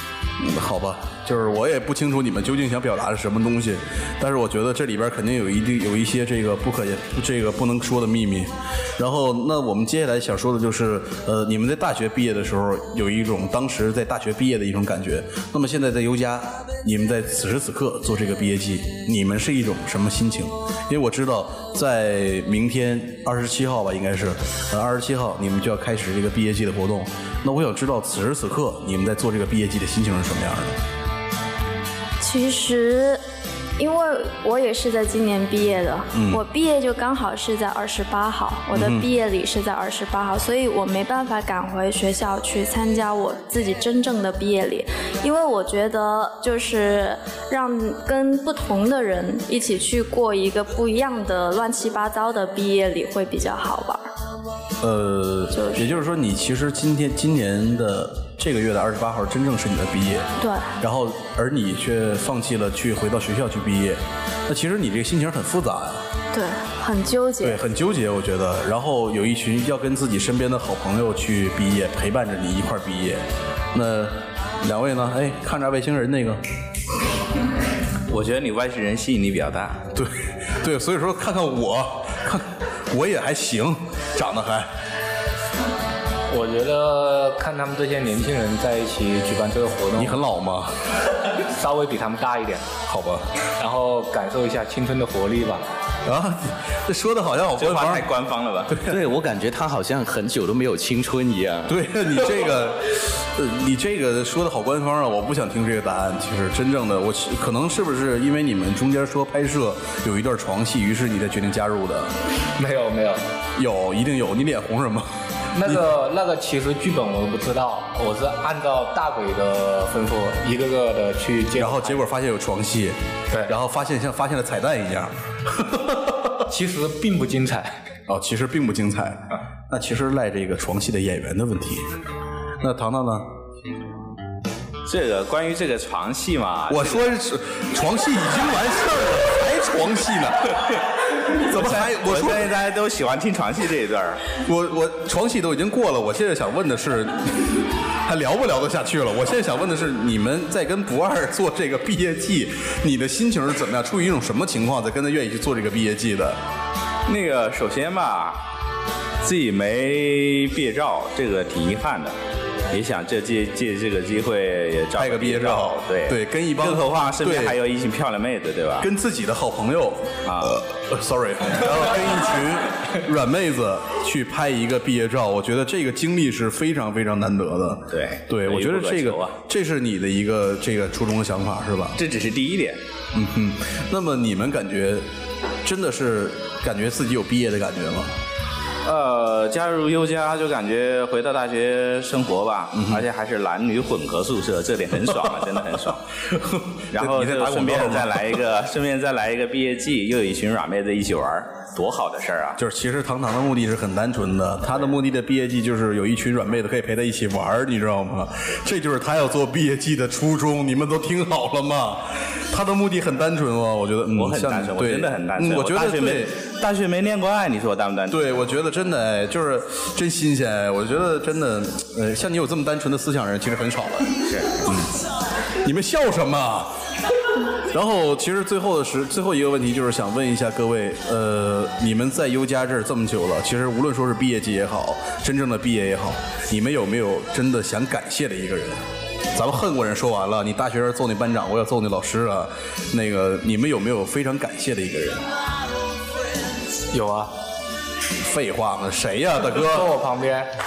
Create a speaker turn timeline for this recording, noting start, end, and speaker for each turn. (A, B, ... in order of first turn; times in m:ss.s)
0:00.4-0:30.8 A
0:32.2-0:33.2 B
0:33.8-0:54.1 B
0:36.1-0:36.4 A
0:38.7-0:39.1 A
0:54.8-1:00.3 A
0:55.5-0:56.0 B
1:00.4-1:00.8 B
1:00.8-1:06.0 A
1:06.3-1:07.6 B
1:07.4-1:16.4 A
1:18.1-1:19.8 C
1:19.9-1:24.7 A
1:26.3-1:30.2 D
1:30.0-1:30.8 A
1:31.4-1:32.9 D
1:32.9-1:33.3 A
1:33.6-1:35.7 D
1:36.0-1:38.1 A
1:37.6-1:38.8 C
1:38.7-1:39.0 A
1:38.8-1:41.8 E
1:41.7-1:52.2 A
1:52.6-1:53.2 D
1:53.6-1:55.8 A
1:55.6-2:02.0 D
2:01.6-2:06.5 A
2:06.5-2:07.8 D
2:08.1-2:11.9 A
2:12.6-2:13.3 A
2:14.9-2:17.1 C
2:16.7-2:22.5 A
2:21.4-2:24.2 C
2:24.4-2:36.4 A
2:37.1-2:38.4 C
2:39.2-2:42.2 C
2:42.7-2:48.9 C
2:45.0-2:47.6 A
2:48.8-3:02.0 A
2:50.2-2:50.6 C
2:57.9-2:59.4 C
3:02.0-3:02.8 C
3:03.1-3:05.0 A
3:05.6-3:08.2 A
3:08.8-3:16.0 C
3:12.8-3:13.0 A
3:16.2-3:18.4 A
3:16.9-3:22.6 C
3:22.6-3:36.4 A
3:34.2-3:38.2 C
3:38.1-3:45.0 A
3:44.2-3:44.6 C
3:45.6-3:46.7 A
3:47.6-3:58.8 A
3:59.3-4:05.3 A
4:06.9-4:07.3 D
4:08.2-4:09.9 A
4:09.5-4:10.5 D